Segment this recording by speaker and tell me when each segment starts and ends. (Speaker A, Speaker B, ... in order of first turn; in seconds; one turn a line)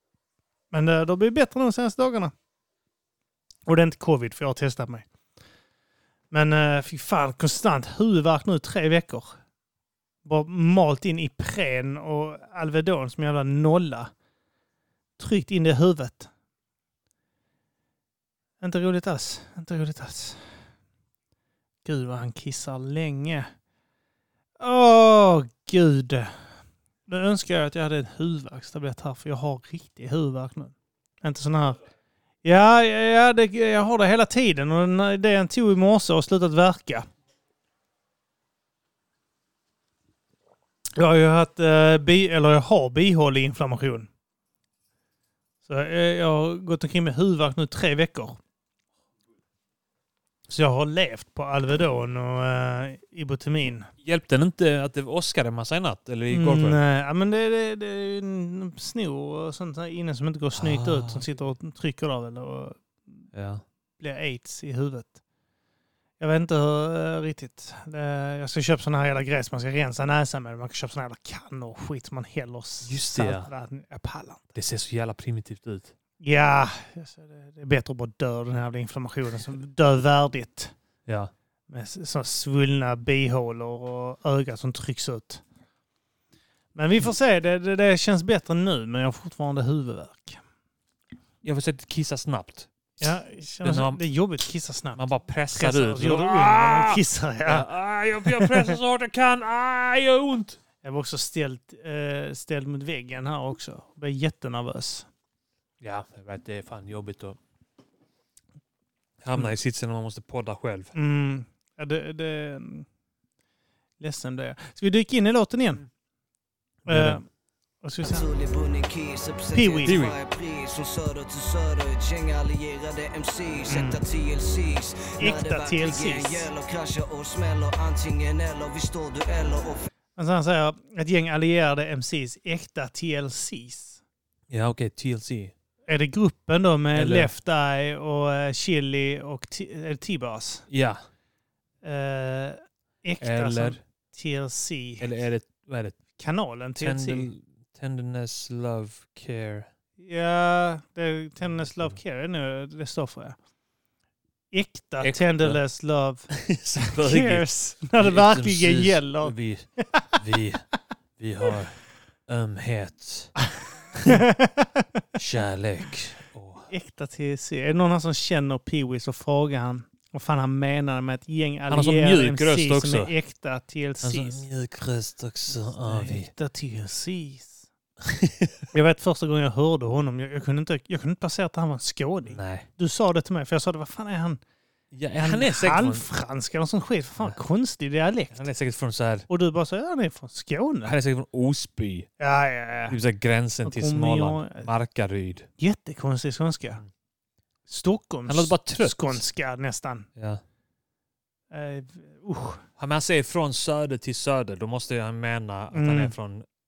Speaker A: 0.7-2.3
Speaker A: 3.7-5.1
Speaker A: 6.3-9.4
Speaker A: 10.2-14.1
Speaker A: 15.2-16.3
Speaker A: 18.6-20.4
Speaker A: 21.9-23.5
Speaker A: 24.6-26.3
Speaker A: 27.1-31.8
Speaker A: 32.4-37.1
Speaker A: 41.0-44.1
Speaker A: 45.6-48.4
Speaker A: 50.5-53.9
Speaker B: 54.0-56.8
Speaker A: 56.3-62.8
Speaker B: 60.6-61.2
Speaker B: 63.3-63.6
Speaker A: 64.0-65.2
Speaker A: 66.2-74.5
Speaker B: 72.8-73.5
Speaker B: 74.5-75.9
Speaker A: 76.2-80.7
Speaker A: 81.7-85.4
Speaker A: 86.8-90.4
Speaker B: 91.4-92.7
Speaker A: 93.0-97.7
Speaker B: 93.6-94.0
Speaker B: 95.0-100.6
Speaker A: 98.3-98.8
Speaker A: 100.8-105.1
Speaker B: 105.8-107.4
Speaker B: 109.2-110.9
Speaker A: 111.0-112.9
Speaker A: 114.0-115.8
Speaker B: 116.9-117.2
Speaker A: 116.9-117.2
Speaker A: 117.8-118.3
Speaker C: 118.0-129.9
Speaker A: 119.5-120.0
Speaker B: 119.9-120.2
Speaker A: 123.7-124.0
Speaker A: 125.2-126.5
Speaker A: 130.2-134.0
Speaker B: 134.5-135.5
Speaker A: 135.9-140.7
Speaker B: 136.9-137.3
Speaker B: 140.7-141.0
Speaker A: 141.8-145.1
Speaker B: 143.2-143.8
Speaker B: 145.0-146.0
Speaker A: 146.2-147.3
Speaker B: 146.8-149.7
Speaker A: 150.0-153.4
Speaker B: 151.4-152.0
Speaker A: 154.5-156.3
Speaker B: 155.0-155.6
Speaker B: 156.3-160.6
Speaker A: 156.8-160.1
Speaker B: 161.2-163.3
Speaker B: 164.0-164.2
Speaker A: 164.1-164.9
Speaker B: 165.2-166.7
Speaker A: 166.7-174.4
Speaker B: 171.7-173.1
Speaker B: 174.0-176.3
Speaker A: 175.7-177.7
Speaker B: 178.1-178.6
Speaker A: 178.7-184.4
Speaker B: 182.3-182.7
Speaker B: 184.9-186.1
Speaker A: 185.2-188.5
Speaker B: 188.3-189.3
Speaker A: 189.3-190.9
Speaker B: 190.8-192.1
Speaker A: 192.2-193.0
Speaker B: 192.9-195.5
Speaker A: 193.7-194.7
Speaker A: 195.6-196.8
Speaker A: 197.7-200.1
Speaker B: 198.3-199.2
Speaker B: 200.2-200.4
Speaker A: 201.5-202.6
Speaker B: 202.8-206.5
Speaker A: 205.7-206.1